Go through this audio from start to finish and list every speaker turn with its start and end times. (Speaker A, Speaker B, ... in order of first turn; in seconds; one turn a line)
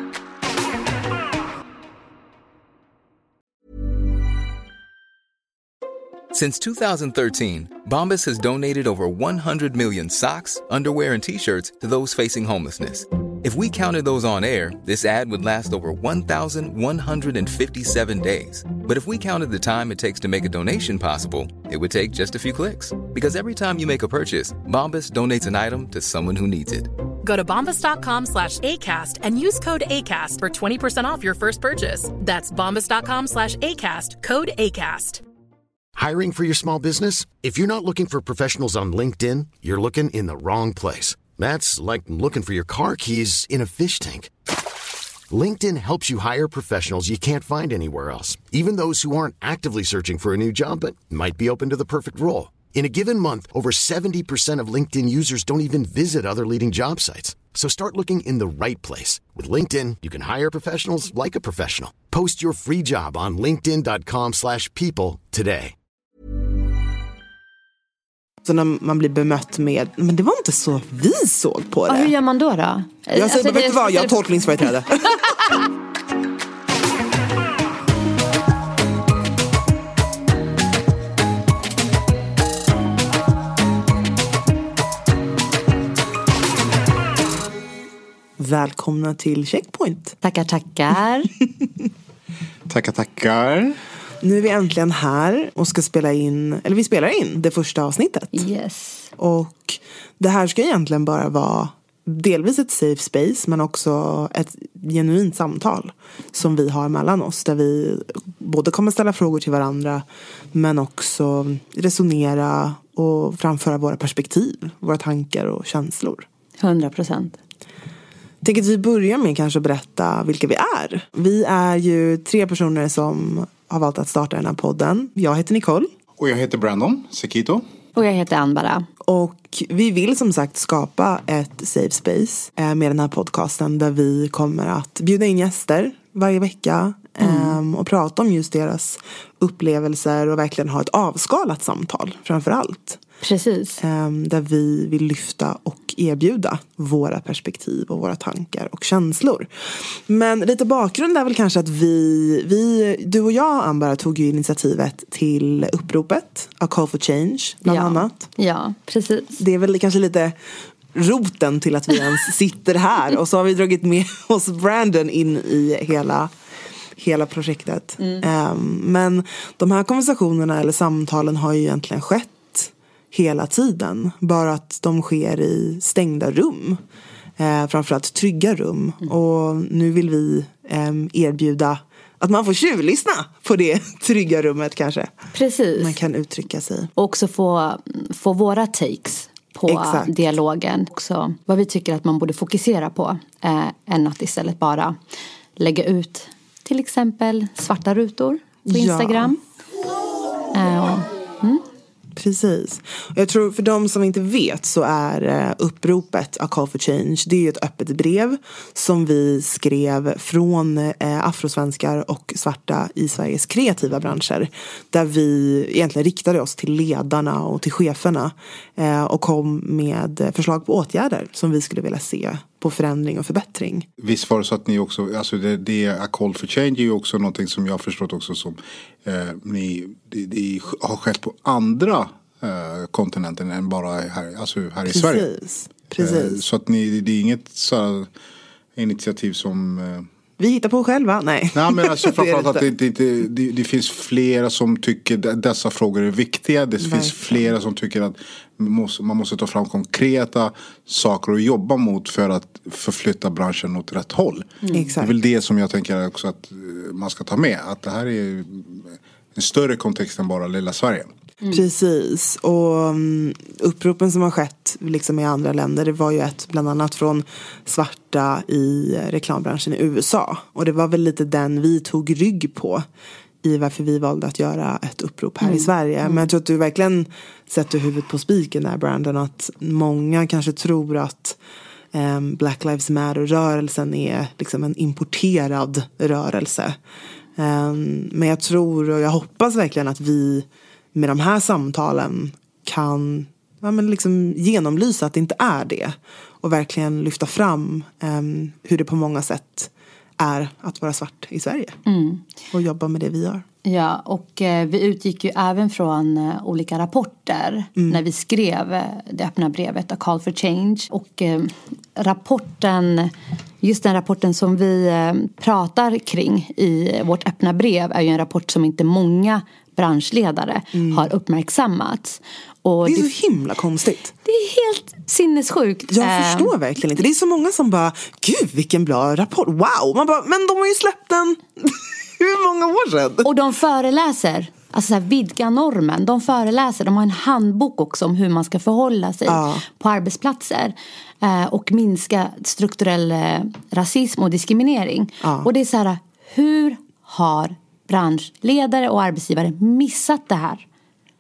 Speaker A: 6.3-26.9
Speaker B: 27.2-35.2
Speaker C: 36.0-44.3
Speaker C: 45.3-65.8
Speaker D: 68.4-72.1
Speaker E: 71.9-74.2
Speaker D: 73.1-75.4
Speaker D: 88.4-90.2
Speaker E: 90.2-91.3
Speaker F: 92.7-93.8
Speaker D: 94.2-98.4
Speaker E: 98.3-99.1
Speaker D: 99.2-116.2
Speaker E: 116.6-117.4
Speaker D: 118.4-125.9
Speaker F: 126.2-127.6
Speaker E: 128.0-128.8
Speaker D: 129.1-143.0
Speaker E: 137.2-137.6
Speaker E: 143.2-143.8
Speaker D: 143.8-158.3
Speaker E: 157.7-159.4
Speaker D: 159.4-160.3
Speaker D: 160.9-166.3
Speaker D: 166.9-176.8
Speaker D: 177.4-185.2
Speaker E: 185.3-186.0
Speaker D: 185.8-186.9
Speaker E: 187.0-195.0
Speaker D: 189.7-190.2
Speaker E: 195.6-199.4
Speaker D: 198.7-199.4
Speaker E: 200.5-201.6
Speaker D: 202.2-223.9
Speaker F: 224.0-235.3
Speaker D: 234.9-236.4
Speaker F: 236.0-238.1
Speaker F: 238.8-240.1
Speaker D: 240.4-242.7
Speaker F: 241.5-261.1
Speaker D: 246.8-247.5
Speaker E: 254.6-254.9
Speaker D: 254.7-255.1
Speaker D: 261.5-272.8
Speaker D: 273.4-281.4
Speaker E: 275.4-276.3
Speaker D: 281.9-286.8
Speaker D: 287.4-301.8
Speaker E: 301.9-302.2
Speaker D: 302.5-303.4
Speaker E: 303.6-323.1
Speaker D: 307.8-308.0
Speaker D: 320.7-321.1
Speaker D: 322.8-324.1
Speaker E: 324.2-326.5
Speaker D: 325.9-333.3
Speaker E: 333.2-350.6
Speaker D: 339.3-339.6
Speaker D: 345.2-345.5